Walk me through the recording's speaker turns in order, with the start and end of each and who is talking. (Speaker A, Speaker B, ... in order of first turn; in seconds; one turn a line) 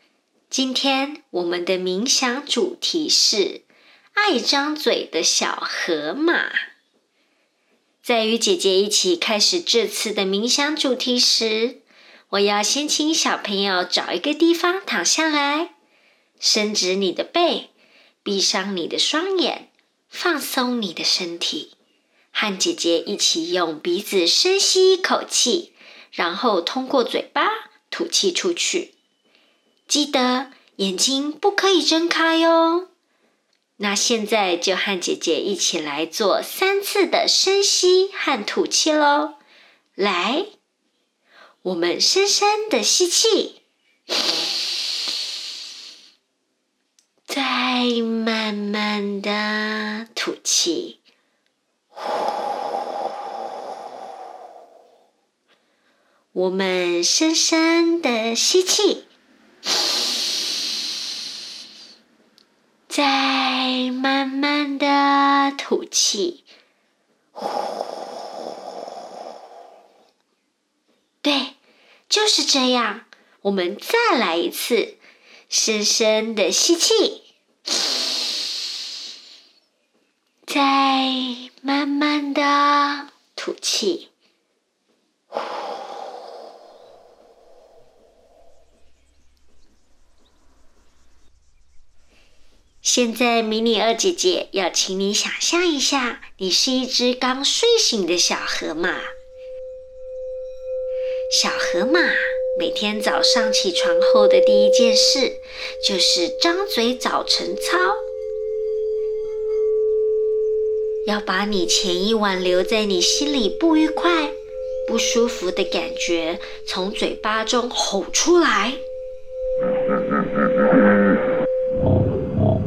Speaker A: 0.5-3.6
Speaker A: 4.1-6.7
Speaker A: 8.0-15.7
Speaker A: 16.4-17.7
Speaker A: 18.2-21.7
Speaker A: 22.3-28.9
Speaker A: 29.9-32.9
Speaker A: 33.8-39.4
Speaker A: 40.0-40.5
Speaker A: 41.6-43.6
Speaker A: 47.3-51.0
Speaker A: 56.3-59.1
Speaker A: 62.9-66.5
Speaker A: 71.2-71.6
Speaker A: 72.1-75.0
Speaker A: 75.5-77.2
Speaker A: 80.5-84.1
Speaker A: 92.8-99.1
Speaker A: 101.3-108.0
Speaker A: 111.1-118.8